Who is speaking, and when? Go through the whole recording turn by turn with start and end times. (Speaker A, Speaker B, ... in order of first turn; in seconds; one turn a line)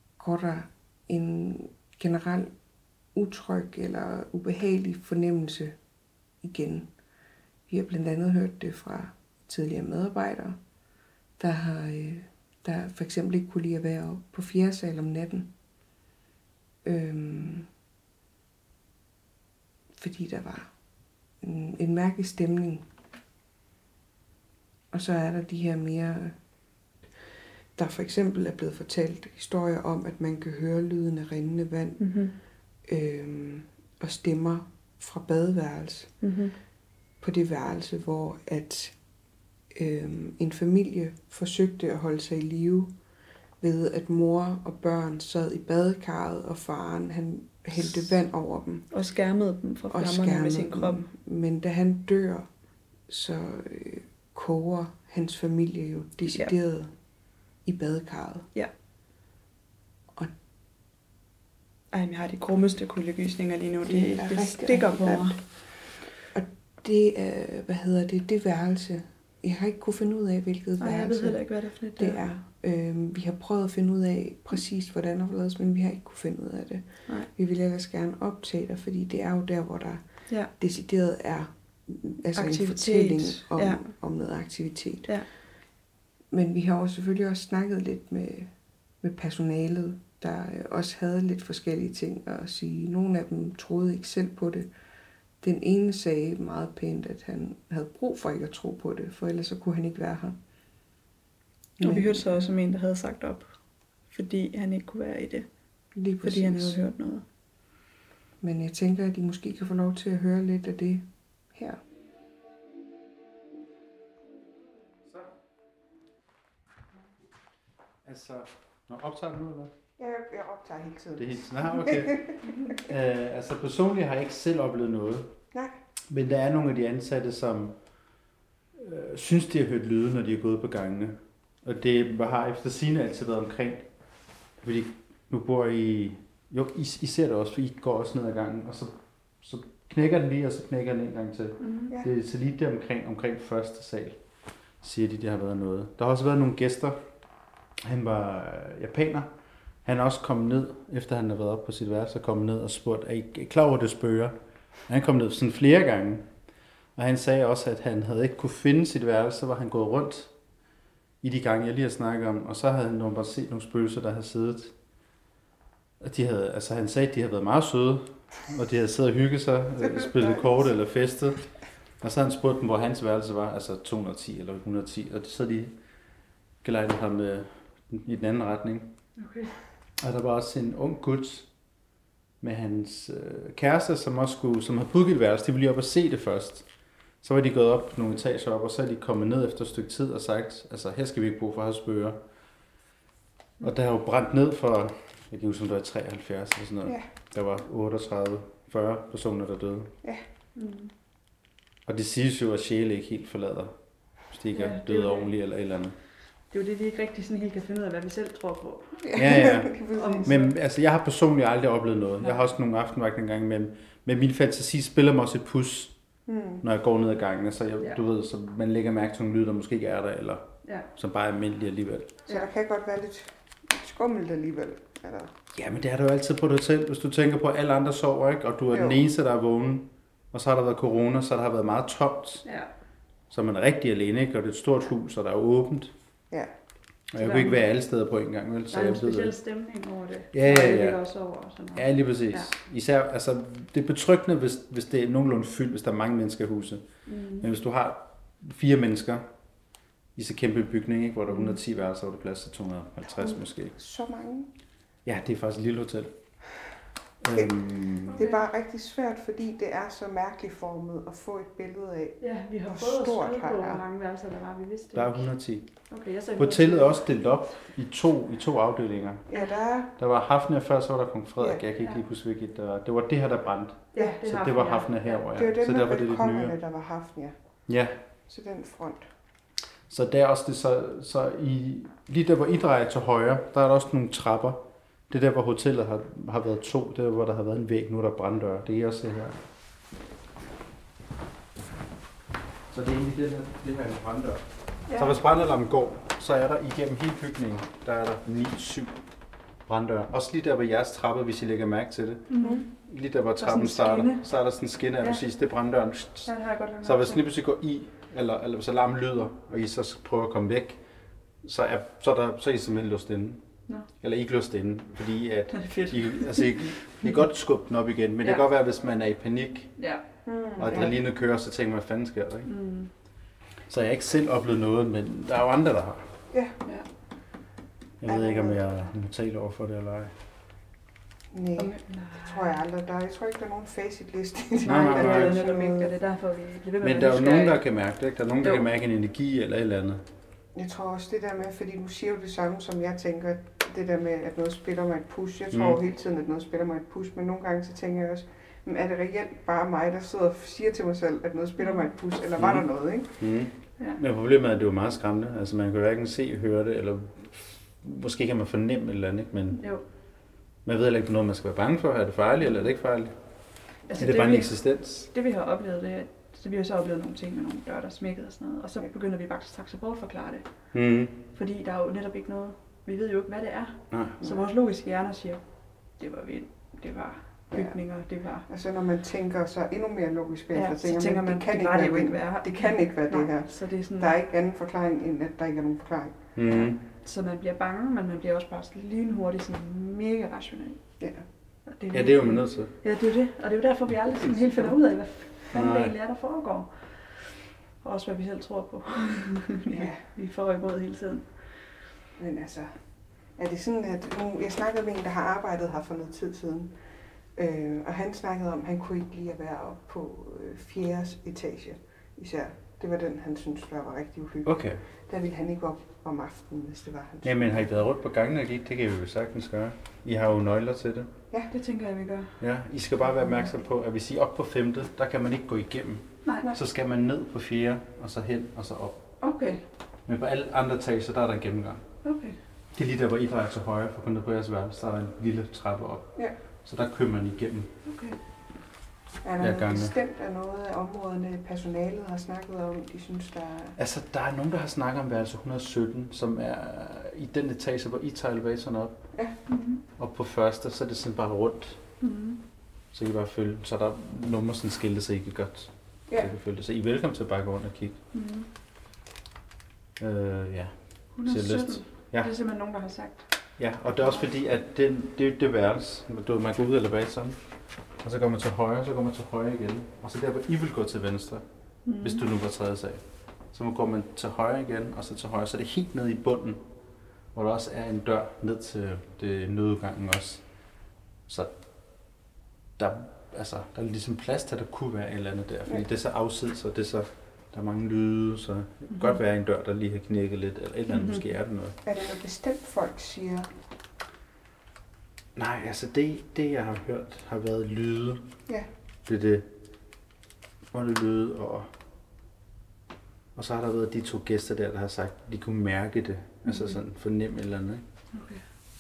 Speaker A: 0.2-2.5
Speaker A: 3.1-5.8
Speaker A: 6.4-6.9
Speaker A: 7.7-10.6
Speaker A: 11.4-15.5
Speaker A: 16.8-17.7
Speaker A: 20.0-20.7
Speaker A: 21.4-22.9
Speaker A: 24.9-26.4
Speaker A: 27.8-32.0
Speaker B: 32.0-32.4
Speaker A: 32.9-36.1
Speaker B: 36.2-36.6
Speaker A: 37.2-39.0
Speaker A: 39.7-43.0
Speaker A: 43.6-48.9
Speaker B: 48.9-51.0
Speaker A: 49.9-52.5
Speaker A: 53.1-56.9
Speaker B: 56.3-56.5
Speaker A: 57.6-58.5
Speaker B: 61.9-65.4
Speaker A: 63.8-85.1
Speaker B: 70.8-72.2
Speaker B: 82.3-83.9
Speaker A: 86.3-94.7
Speaker A: 95.4-100.4
Speaker A: 101.8-102.5
Speaker B: 101.8-103.5
Speaker B: 104.1-105.5
Speaker A: 106.0-106.8
Speaker B: 106.2-107.2
Speaker A: 108.4-111.8
Speaker C: 118.0-119.7
Speaker A: 120.0-122.4
Speaker C: 121.2-125.4
Speaker B: 122.5-122.7
Speaker C: 126.1-127.8
Speaker C: 128.8-133.9
Speaker C: 134.6-144.2
Speaker B: 141.6-141.9
Speaker C: 144.8-147.0
Speaker C: 147.8-149.3
Speaker C: 149.8-156.3
Speaker C: 157.0-160.3
Speaker C: 161.2-164.7
Speaker C: 166.0-171.5
Speaker A: 169.8-170.6
Speaker C: 172.0-175.8
Speaker C: 176.6-178.9
Speaker B: 179.2-179.5
Speaker C: 180.0-181.5
Speaker C: 182.4-186.7
Speaker C: 187.2-192.2
Speaker C: 193.6-199.9
Speaker B: 200.6-200.9
Speaker C: 201.9-203.7
Speaker C: 204.3-206.0
Speaker B: 204.5-205.3
Speaker B: 206.5-209.0
Speaker A: 209.0-210.5
Speaker C: 209.1-216.0
Speaker B: 210.0-210.5
Speaker A: 216.3-216.6
Speaker C: 216.6-222.2
Speaker A: 222.3-225.4
Speaker C: 225.5-232.4
Speaker A: 228.7-229.0
Speaker B: 232.4-232.7
Speaker C: 233.3-235.9
Speaker C: 237.1-239.4
Speaker B: 237.2-237.7
Speaker B: 238.7-242.5
Speaker C: 240.3-241.0
Speaker C: 241.8-246.8
Speaker B: 247.1-247.5
Speaker C: 247.4-249.3
Speaker C: 250.2-253.8
Speaker B: 251.3-251.6
Speaker A: 253.0-254.5
Speaker C: 255.1-256.2
Speaker C: 257.2-258.2
Speaker B: 258.1-258.4
Speaker A: 258.1-263.8
Speaker B: 262.2-265.3
Speaker C: 264.9-265.7
Speaker B: 265.9-267.0
Speaker C: 266.4-269.3
Speaker A: 269.3-269.9
Speaker C: 270.0-276.6
Speaker B: 273.9-275.2
Speaker A: 275.4-277.4
Speaker C: 277.7-278.0
Speaker A: 278.3-279.1
Speaker C: 279.9-289.4
Speaker C: 292.7-299.0
Speaker C: 299.7-302.3
Speaker B: 302.3-302.6
Speaker C: 302.8-310.8
Speaker B: 303.4-304.2
Speaker B: 306.3-307.2
Speaker C: 311.4-313.4
Speaker C: 314.0-319.7
Speaker B: 315.5-316.6
Speaker B: 319.8-320.0
Speaker A: 320.3-320.9
Speaker C: 320.6-322.5
Speaker B: 322.5-322.9
Speaker C: 323.7-326.1
Speaker A: 326.3-326.6
Speaker C: 328.0-330.1
Speaker A: 328.1-328.6
Speaker A: 331.3-335.9
Speaker B: 331.6-332.6
Speaker C: 334.6-335.4
Speaker B: 334.6-337.6
Speaker C: 336.8-340.0
Speaker A: 340.5-353.1
Speaker C: 345.5-345.8
Speaker B: 351.6-351.9
Speaker C: 352.4-359.6
Speaker B: 359.6-359.8
Speaker C: 360.6-363.1
Speaker B: 363.9-370.5
Speaker C: 364.0-365.1
Speaker C: 370.7-371.2
Speaker B: 371.3-375.4
Speaker C: 373.9-374.2
Speaker B: 376.0-378.5
Speaker A: 377.5-377.8
Speaker A: 378.5-386.2
Speaker B: 380.5-384.2
Speaker C: 386.4-386.8
Speaker B: 386.5-390.8
Speaker B: 391.7-401.7
Speaker C: 391.9-392.7
Speaker C: 395.5-395.9
Speaker A: 399.7-400.1
Speaker A: 402.2-406.8
Speaker A: 407.3-417.7
Speaker C: 414.4-414.8
Speaker C: 417.2-421.1
Speaker B: 421.5-422.4
Speaker C: 422.4-429.0
Speaker B: 429.2-429.6
Speaker C: 430.1-431.9
Speaker B: 432.0-432.4
Speaker C: 432.8-437.7
Speaker B: 437.9-438.2
Speaker A: 439.2-443.8
Speaker C: 439.4-439.9
Speaker C: 443.8-449.1
Speaker B: 449.5-449.8
Speaker C: 450.0-451.8
Speaker B: 452.0-452.4
Speaker C: 452.9-458.0
Speaker B: 458.1-458.5
Speaker C: 460.0-462.3
Speaker B: 461.1-463.3
Speaker C: 463.6-467.4
Speaker C: 468.0-471.4
Speaker B: 471.9-472.2
Speaker C: 472.0-476.6
Speaker C: 477.3-480.4
Speaker C: 481.3-481.5
Speaker C: 482.8-491.8
Speaker B: 490.9-491.2
Speaker A: 491.8-493.5
Speaker C: 495.4-498.3
Speaker C: 499.1-499.5
Speaker C: 500.7-501.7
Speaker C: 503.4-507.8
Speaker B: 506.5-506.8
Speaker B: 508.1-508.4